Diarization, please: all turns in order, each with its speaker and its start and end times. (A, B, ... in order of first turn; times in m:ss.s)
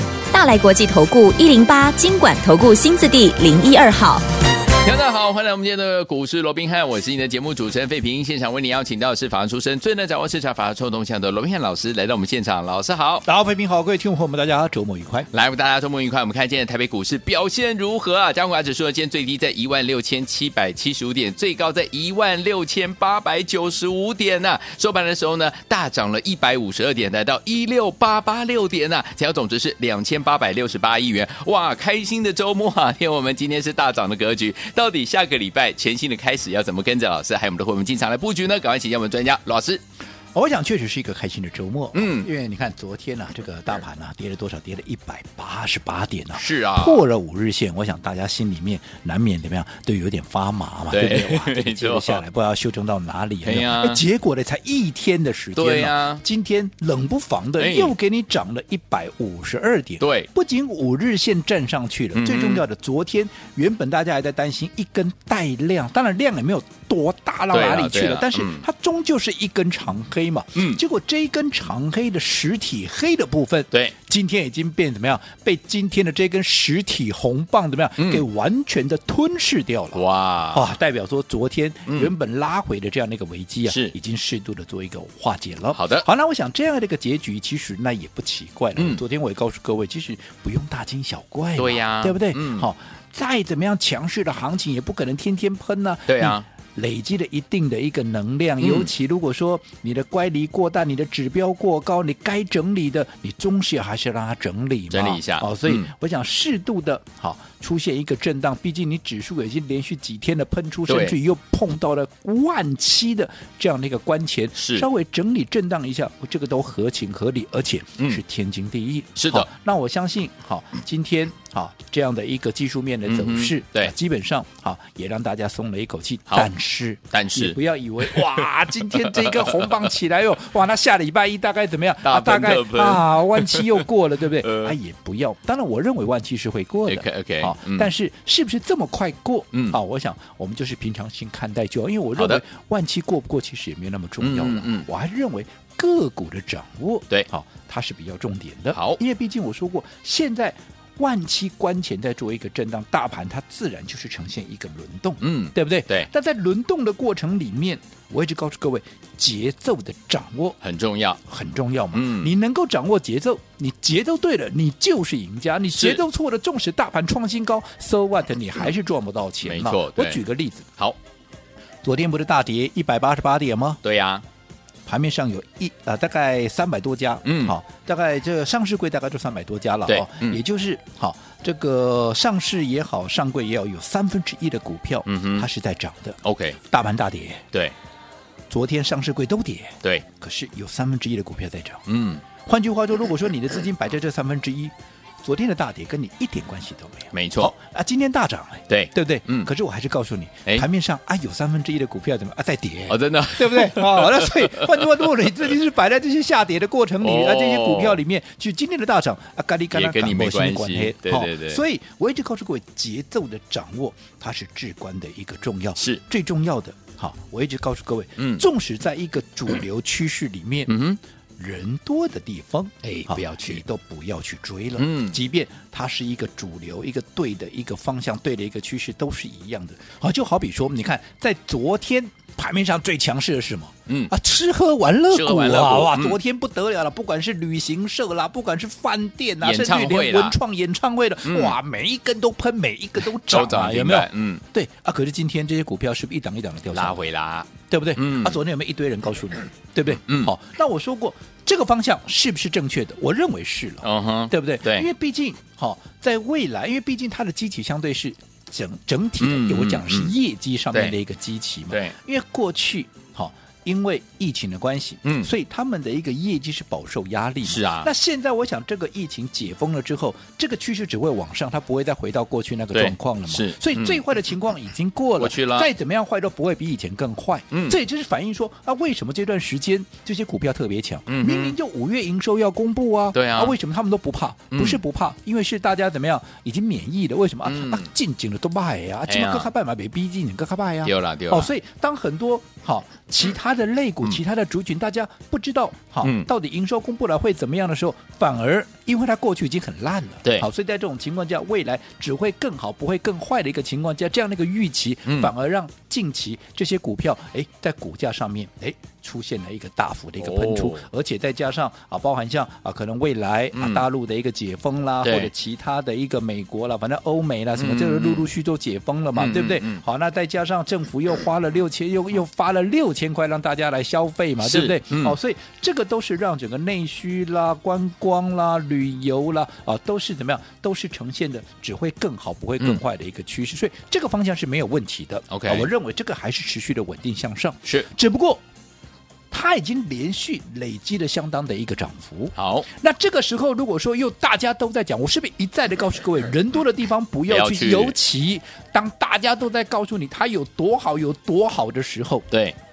0:00.3-0:04.2 A
0:04.8-0:13.2 B
0:13.2-0:15.3 C
0:15.3-0:39.8 B
0:40.3-2:40.6 C
0:41.9-0:42.3 B
0:46.3-0:47.1 B
0:50.9-0:52.2 B
0:53.4-0:54.0 B
0:55.6-0:56.2 B
0:57.6-0:58.0 B
1:00.0-1:00.3 B
1:02.1-1:02.6 B
1:07.5-1:08.7 B
1:10.6-1:10.8 B
1:18.0-1:18.3 B
1:19.9-1:20.8 B
1:21.9-1:22.1 B
1:23.7-1:23.9 B
1:25.7-1:26.1 B
1:28.8-1:29.0 B
1:31.6-1:32.7 B
1:36.1-1:36.5 B
1:38.6-1:38.9 B
1:44.9-1:45.9 B
1:50.9-1:51.2 B
1:54.6-1:54.9 B
1:59.2-1:59.5 B
2:03.0-2:03.9 B
2:07.1-2:08.5 B
2:09.0-2:09.9 B
2:12.0-2:14.8 B
2:16.9-2:17.9 B
2:19.5-2:19.8 B
2:22.2-2:22.4 B
2:24.2-2:24.9 B
2:28.7-2:29.0 B
2:35.2-2:36.1 B
2:40.6-2:41.2 B
2:41.3-2:50.7 C
2:41.9-2:42.3 B
2:45.8-2:46.0 B
2:49.4-2:50.2 B
2:51.8-2:53.8 C
2:53.8-2:54.2 B
2:54.9-3:07.5 C
2:57.2-2:57.6 B
2:59.9-3:00.4 B
3:05.1-3:05.5 B
3:06.2-3:06.6 B
3:08.5-3:11.8 C
3:11.9-3:12.2 B
3:12.4-3:40.8 C
3:17.1-3:17.5 B
3:18.7-3:19.5 B
3:22.9-3:25.4 B
3:27.0-3:28.0 B
3:29.7-3:31.6 B
3:35.8-3:36.0 B
3:38.2-3:38.4 B
3:40.7-3:41.0 B
3:41.4-4:07.0 C
3:42.8-3:43.6 B
3:44.8-3:45.2 B
3:53.9-3:54.1 B
3:55.1-3:56.2 B
3:59.4-4:00.4 B
4:01.2-4:01.6 B
4:03.3-4:04.4 B
4:06.7-4:08.4 B
4:07.7-5:38.4 C
4:09.9-4:10.3 B
4:13.8-4:14.9 B
4:19.2-4:20.1 B
4:21.7-4:22.0 B
4:25.0-4:25.3 B
4:27.4-4:27.9 B
4:32.7-4:34.0 B
4:35.2-4:35.7 B
4:37.5-4:37.8 B
4:41.1-4:41.6 B
4:43.1-4:43.6 B
4:44.5-4:44.8 B
4:47.4-4:47.9 B
4:49.1-4:49.5 B
4:50.8-4:51.5 B
4:56.0-4:56.3 B
5:05.1-5:05.3 B
5:10.2-5:10.9 B
5:13.5-5:13.9 B
5:15.0-5:15.3 B
5:17.6-5:18.3 B
5:19.1-5:19.8 B
5:24.4-5:25.2 B
5:35.3-5:35.7 B
5:39.3-5:52.3 C
5:42.4-5:42.7 B
5:47.3-5:48.0 B
5:52.3-5:52.6 B